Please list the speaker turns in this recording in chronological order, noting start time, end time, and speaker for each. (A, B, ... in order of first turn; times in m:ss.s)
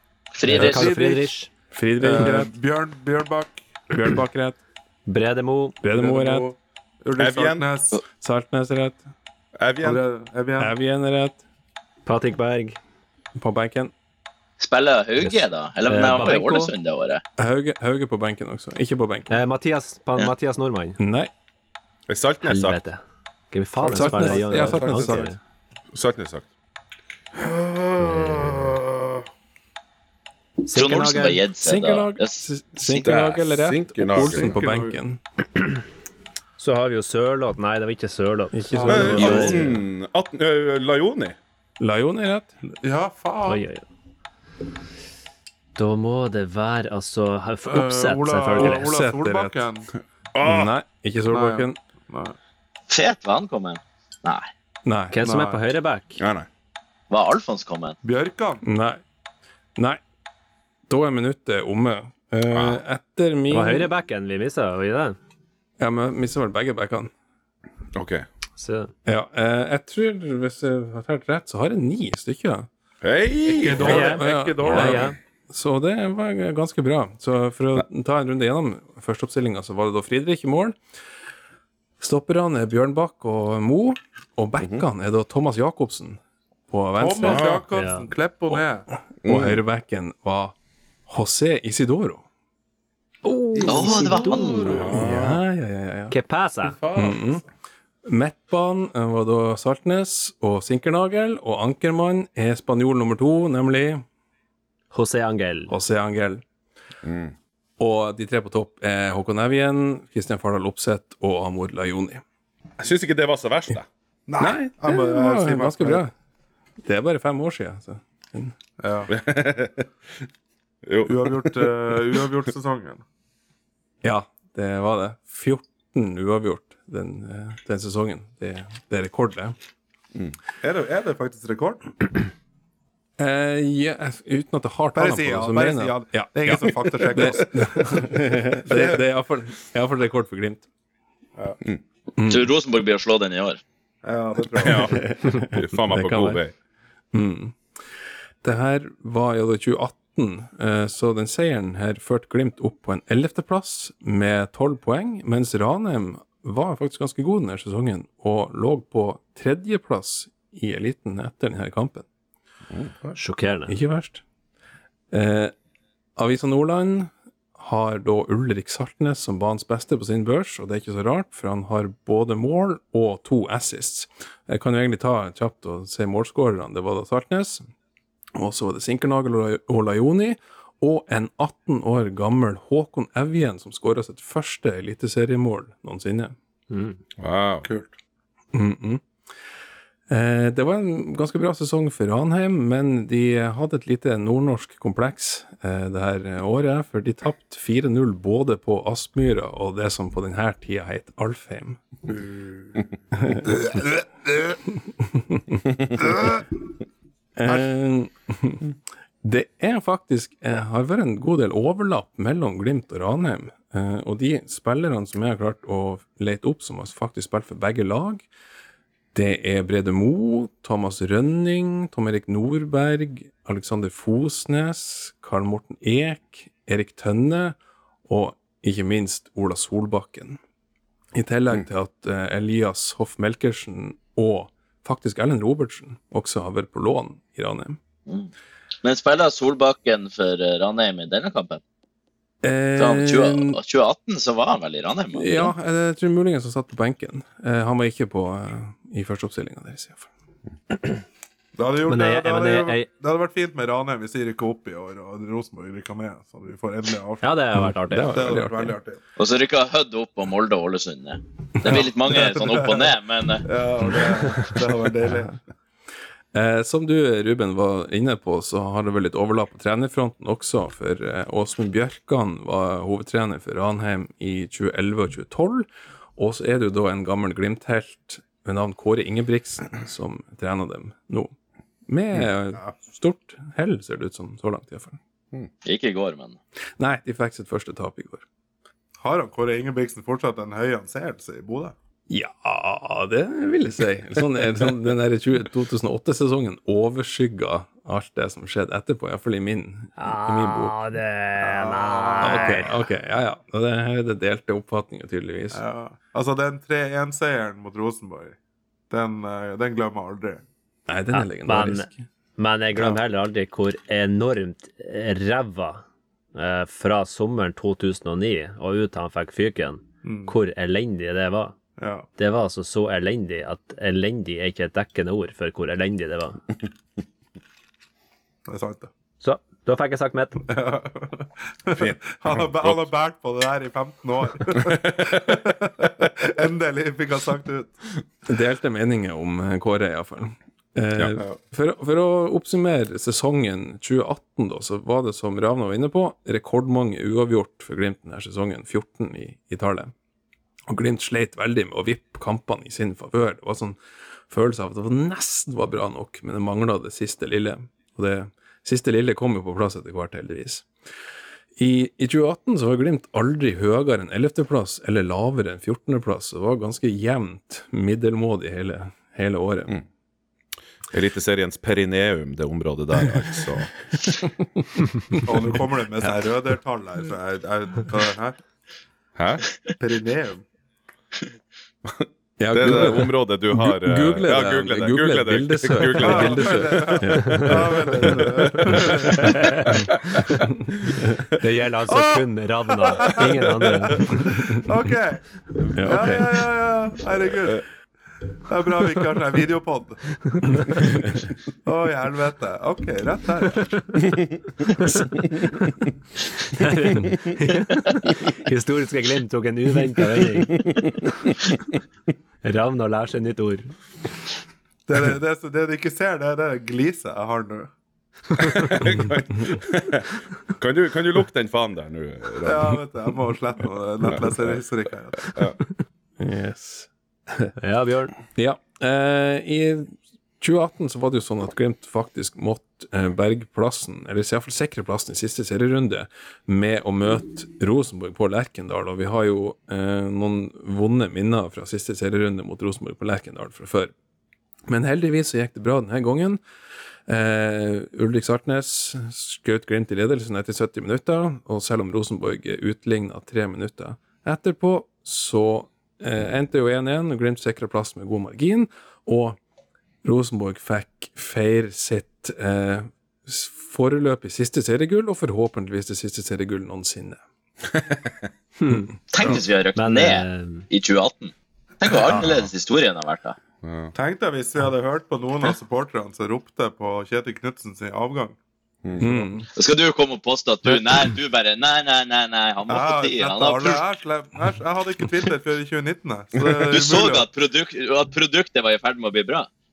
0:00.3-0:00.9 A
0:00.5-0:01.5 B
0:00.5-0:02.5 C
0:02.0-0:03.6 D
0:03.9-0:04.6 C
0:05.1-0:05.8 B
0:05.8-0:06.5 C
0:06.0-0:08.0 D
0:07.2-0:07.7 E
0:08.1-0:09.0 C
0:09.6-0:10.0 E
0:09.8-0:10.7 D
0:10.6-0:11.4 C
0:12.0-0:12.8 B
0:13.4-0:13.9 C
0:14.6-0:17.2 A
0:15.2-0:16.7 B
0:17.4-0:19.3 C
0:19.3-0:21.0 B
0:21.0-0:21.3 C
0:22.1-0:22.8 E
0:22.4-0:25.4 B
0:23.9-0:25.3 D
0:23.9-0:25.4 C
0:25.9-0:26.4 E
0:27.5-0:28.8 E
0:30.6-0:31.5 B
0:30.7-0:33.2 A
0:31.6-0:35.2 C
0:33.0-0:34.6 E
0:34.1-0:35.0 D
0:36.6-0:39.7 B
0:38.5-0:39.7 C
0:38.7-0:39.7 D
0:38.9-0:41.4 E
0:41.8-0:42.5 C
0:42.8-0:43.6 D
0:43.5-0:43.8 B
0:45.8-0:48.9 B
0:47.7-0:49.9 D
0:48.6-0:49.6 C
0:50.3-0:50.7 E
0:50.4-0:51.8 C
0:51.2-0:52.3 D
0:52.9-0:54.5 A
0:54.8-0:55.2 C
0:55.1-0:56.2 B
0:55.2-0:55.6 D
0:56.2-0:56.5 E
0:57.1-0:58.0 A
0:58.0-0:58.6 D
0:58.6-0:59.0 C
0:59.8-1:00.0 C
1:00.9-1:03.9 C
1:02.5-1:02.8 E
1:03.5-1:05.2 B
1:05.8-1:07.1 C
1:07.9-1:08.2 E
1:08.6-1:08.9 B
1:09.0-1:12.7 C
1:13.0-1:15.0 E
1:13.4-1:15.0 D
1:13.7-1:20.8 C
1:13.8-1:15.2 B
1:22.0-1:27.5 C
1:27.0-1:28.8 D
1:27.2-1:27.6 E
1:27.7-1:28.0 B
1:29.2-1:30.5 C
1:29.2-1:29.6 E
1:31.1-1:32.2 C
1:33.2-1:34.1 C
1:33.6-1:35.3 D
1:33.6-1:34.8 A
1:34.7-1:35.3 E
1:34.8-1:36.1 C
1:36.1-1:36.8 B
1:36.7-1:37.3 D
1:36.9-1:37.4 C
1:38.0-1:44.0 C
1:44.9-1:45.7 B
1:45.7-1:46.4 C
1:47.0-1:47.3 E
1:47.8-1:52.2 C
1:52.8-1:53.8 E
1:54.3-1:56.0 D
1:54.4-1:56.1 C
1:56.8-1:58.5 C
1:58.8-1:59.1 D
1:59.1-1:59.9 E
2:00.8-2:02.2 E
2:01.0-2:03.0 D
2:04.0-2:09.6 C
2:10.6-2:12.0 D
2:13.2-2:20.6 C
2:14.9-2:19.0 D
2:22.2-2:22.5 C
2:22.2-2:23.6 A
2:24.0-2:25.0 D
2:24.6-2:26.4 C
2:24.6-2:26.5 E
2:27.1-2:27.6 C
2:28.4-2:42.0 C
2:43.2-2:43.7 B
2:43.7-2:44.2 C
2:45.1-2:45.5 C
2:46.2-2:57.6 C
2:58.4-3:06.3 C
3:06.7-3:07.0 B
3:07.2-3:07.7 E
3:07.6-3:07.9 D
3:08.5-3:09.0 C
3:10.1-3:21.8 C
3:23.1-3:23.8 C
3:23.5-3:24.5 D
3:24.7-3:25.6 C
3:26.0-3:26.3 D
3:27.4-3:28.7 C
3:29.2-3:38.3 C
3:39.1-3:50.4 C
3:51.1-3:57.8 C
3:58.8-4:01.6 A
4:02.4-4:03.6 C
4:02.8-4:05.5 A
4:05.1-4:10.1 C
4:11.6-4:17.2 D
4:11.9-4:12.9 B
4:17.2-4:18.2 B
4:17.6-4:18.8 C
4:18.1-4:19.0 D
4:19.2-4:23.5 A
4:21.6-4:25.4 D
4:25.0-4:25.3 C
4:26.3-4:41.3 C
4:41.9-4:45.0 C
4:45.6-4:46.4 A
4:46.8-4:48.2 C
4:49.0-4:51.7 D
4:52.1-5:00.8 C
5:00.0-5:02.8 B
5:01.4-5:02.6 D
5:02.2-5:05.6 C
5:05.5-5:08.4 D
5:08.9-5:10.4 D
5:10.9-5:12.0 C
5:11.1-5:15.8 B
5:16.3-5:21.5 B
5:20.0-5:20.3 D
5:21.8-5:22.1 D
5:22.2-5:26.4 B
5:28.5-5:28.9 D
5:29.2-5:30.4 B
5:30.5-5:37.8 D
5:31.8-5:32.8 E
5:34.6-5:35.2 E
5:38.3-5:49.9 C
5:50.7-5:53.8 C
5:54.3-6:00.7 C
6:01.6-6:09.7 C
6:10.9-6:13.7 E
6:14.3-6:15.3 C
6:15.2-6:18.4 D
6:19.2-6:19.4 E
6:19.8-6:20.4 D
6:21.8-6:26.9 E
6:22.4-6:28.9 C
6:26.0-6:30.2 D
6:29.2-6:29.7 B
6:31.4-6:34.3 B
6:31.9-6:32.2 D
6:32.8-6:35.2 D
6:35.7-6:36.3 C
6:35.8-6:37.6 D
6:38.5-6:40.7 D
6:40.5-6:40.8 B
6:41.6-6:44.1 D
6:46.4-6:50.6 B
6:50.6-6:50.9 E
6:52.4-6:53.7 B
6:54.9-6:57.7 D
6:58.4-7:02.8 E
7:02.4-7:05.4 D
7:04.0-7:04.6 E
7:05.3-7:05.6 E
7:06.2-7:07.5 C
7:07.6-7:08.1 B
7:08.3-7:23.9 C
7:24.7-7:26.4 C
7:27.1-7:39.4 C
7:40.0-7:47.2 C
7:47.7-7:48.1 E
7:48.6-7:48.9 B
7:49.1-7:53.4 A
7:49.8-7:50.7 B
7:53.6-7:53.9 E
7:53.9-7:58.4 D
7:59.0-7:59.5 C
7:59.5-8:03.8 A
8:02.7-8:07.3 D
8:06.5-8:09.5 A